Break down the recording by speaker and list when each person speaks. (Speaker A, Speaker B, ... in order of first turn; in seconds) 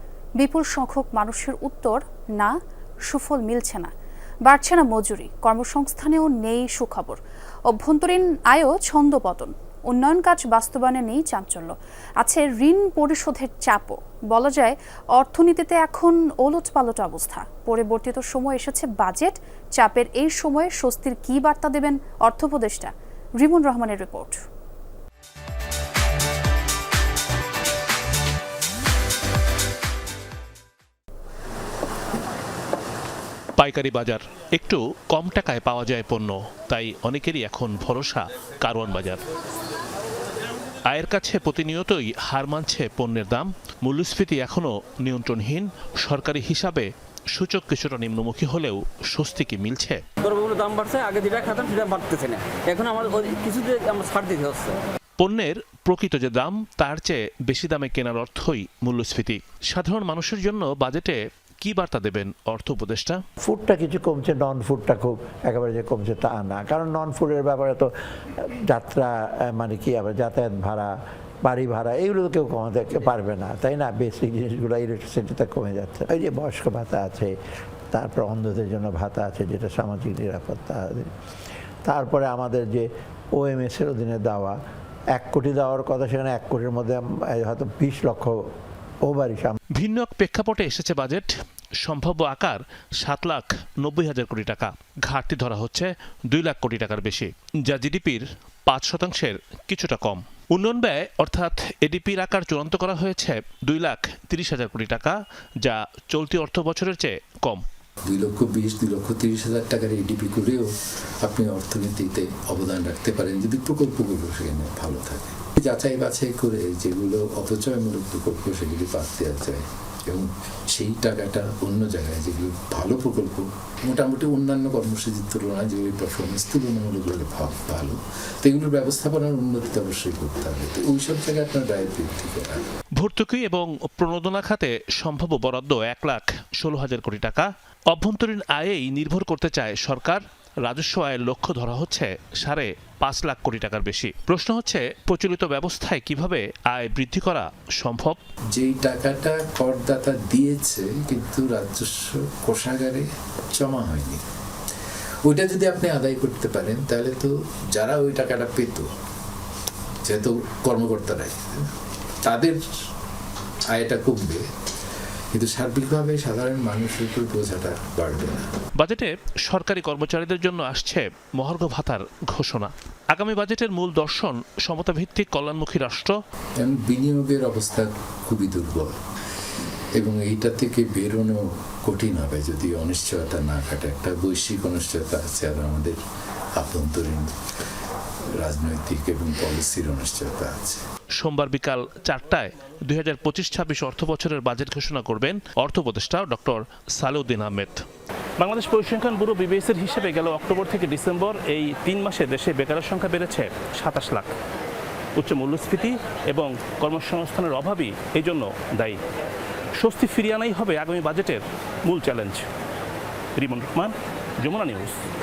Speaker A: 0.4-2.5, 3.1-3.9, 4.4-7.2, 7.7-24.4
Speaker B: 33.6-39.2, 40.9-50.0, 55.2-63.2, 89.7-91.3, 91.8-107.6, 133.0-148.2, 168.8-176.1, 191.2-197.8, 198.4-204.3, 205.2-209.0, 209.8-212.4, 213.3-215.0
Speaker C: 50.3-54.7
Speaker D: 63.4-67.9, 68.7-70.9, 71.4-77.3, 77.9-81.1, 81.8-84.5, 85.1-88.4, 89.0-89.5
Speaker E: 108.1-110.7, 111.2-132.6, 148.6-154.2, 155.2-158.9, 160.0-161.7, 162.2-162.6, 163.7-164.4, 165.3-168.4, 176.6-178.9, 179.9-186.0, 186.6-187.3, 188.4-190.8